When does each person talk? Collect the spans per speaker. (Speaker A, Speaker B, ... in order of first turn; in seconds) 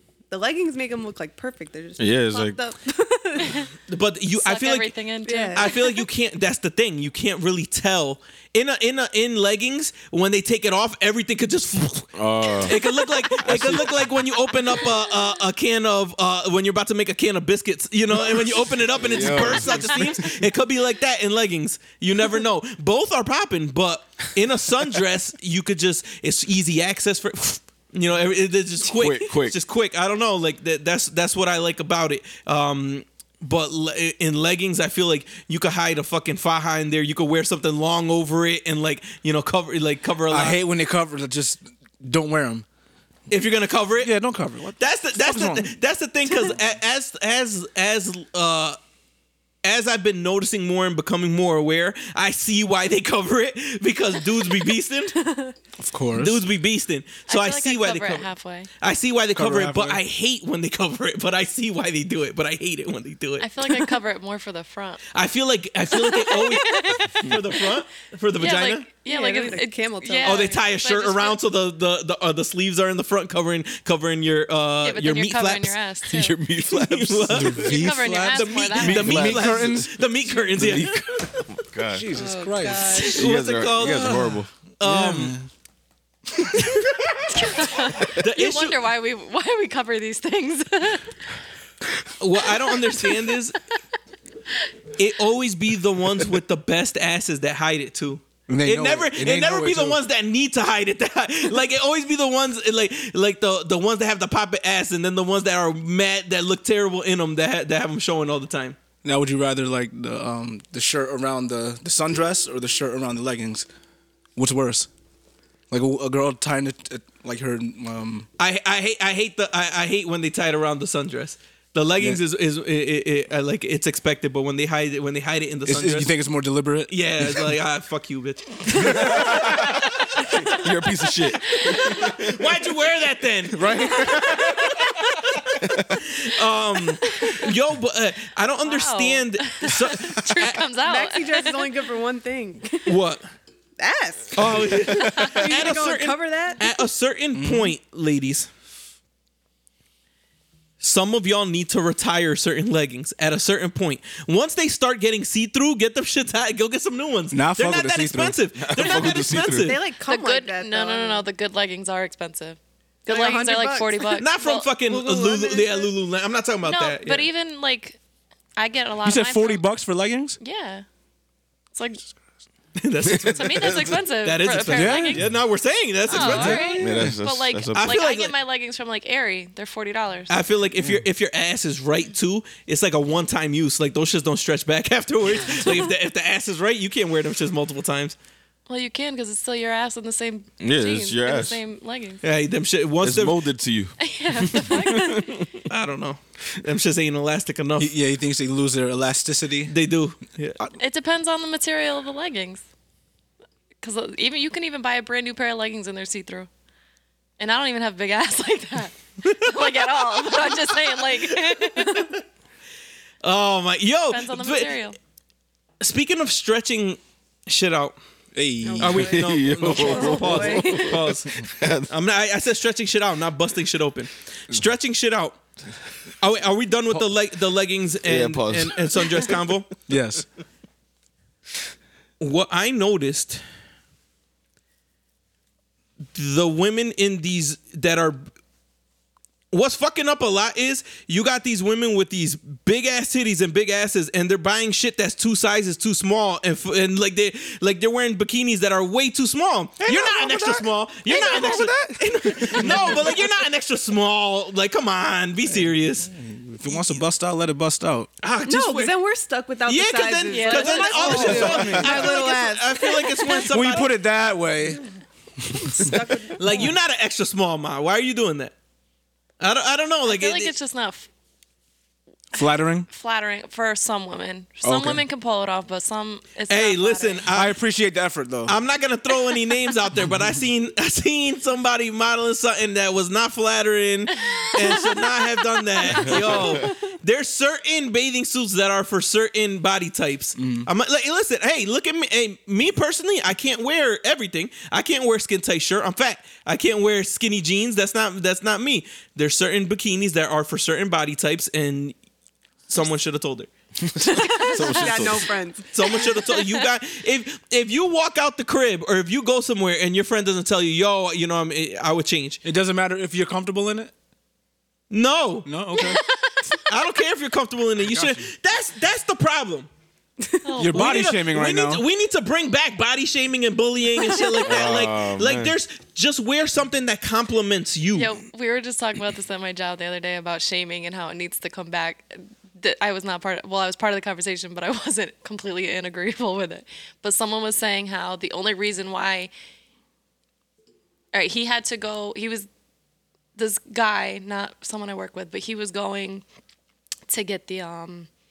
Speaker A: 0.3-3.7, 5.2-5.8, 69.0-70.6, 82.1-83.3, 140.8-142.9, 143.8-146.6, 159.0-161.3, 163.1-164.2, 164.8-165.9, 176.2-176.8, 218.6-220.9, 258.4-263.4, 265.5-266.7, 304.1-306.0
Speaker B: 2.0-2.6, 12.1-12.8, 13.4-14.0, 18.9-20.2, 28.9-29.6, 76.1-77.6, 78.9-79.7, 80.6-82.1, 83.1-84.5, 128.9-132.4, 135.6-136.0, 158.6-159.8, 173.1-173.8, 176.8-178.0, 190.6-191.6, 193.0-195.6, 219.0-221.9, 228.0-229.3, 274.6-275.0, 304.4-305.3, 324.4-325.6
Speaker C: 3.9-4.9, 5.5-40.6, 43.3-44.1, 44.8-48.8, 49.6-55.3, 56.1-58.3, 58.8-63.5, 65.1-68.9, 70.2-75.7, 76.6-77.8, 78.3-81.5, 82.8-85.4, 86.5-88.8, 92.2-93.6, 95.0-108.8, 118.4-126.1, 126.9-130.6, 131.5-140.6, 142.9-143.3, 144.3-148.5, 150.8-159.8, 164.2-167.3, 172.8-176.8, 177.7-178.3, 180.3-188.2, 192.2-193.4, 195.7-197.9, 199.7-200.6, 209.3-209.8, 211.2-212.1, 213.2-214.8, 215.8-218.0, 218.8-225.4, 226.2-229.7, 232.2-233.4, 236.1-238.2, 239.5-256.1, 258.2-258.9, 259.7-263.9, 266.4-268.5, 269.4-270.5, 276.5-277.6, 278.4-301.9, 302.7-303.5, 305.7-312.4, 314.9-315.5, 316.6-319.7, 320.7-328.1
Speaker D: 4.3-6.0, 57.3-58.7, 63.4-65.0, 65.9-67.4, 68.4-71.4, 74.8-76.4, 77.5-79.2, 87.3-91.1, 93.0-93.3, 137.1-137.5, 138.6-141.7, 145.3-145.5, 160.1-164.7, 166.6-168.0, 168.6-169.6, 170.4-170.8, 171.7-172.0, 173.2-175.2, 176.1-180.4, 188.7-192.2, 194.0-195.4, 200.8-202.6, 203.8-206.5, 207.4-212.1, 214.1-215.0, 219.9-220.9, 260.3-261.8, 270.1-271.1, 272.9-277.2, 285.8-286.4, 304.2-304.5, 306.1-306.6, 315.7-316.6, 320.4-321.2, 327.9-339.3, 341.1-342.5, 343.4-346.2, 347.1-348.1
Speaker E: 40.3-42.6, 44.0-45.7, 55.8-56.4, 59.4-60.0, 77.3-80.0, 80.5-80.9, 81.9-82.9, 83.8-85.5, 98.5-100.0, 109.0-113.7, 114.4-114.9, 115.7-118.3, 125.7-127.5, 128.8-129.2, 133.5-134.6, 147.3-147.8, 157.3-158.4, 169.1-170.4, 174.7-175.2, 176.2-177.1, 197.8-199.7, 218.3-219.2, 229.9-230.3, 249.8-253.3, 256.1-258.1, 261.0-262.2, 263.5-264.8, 265.4-265.9, 272.3-272.9, 277.3-278.6, 290.4-290.7, 312.4-313.9, 315.4-316.0, 317.9-318.3, 320.6-321.8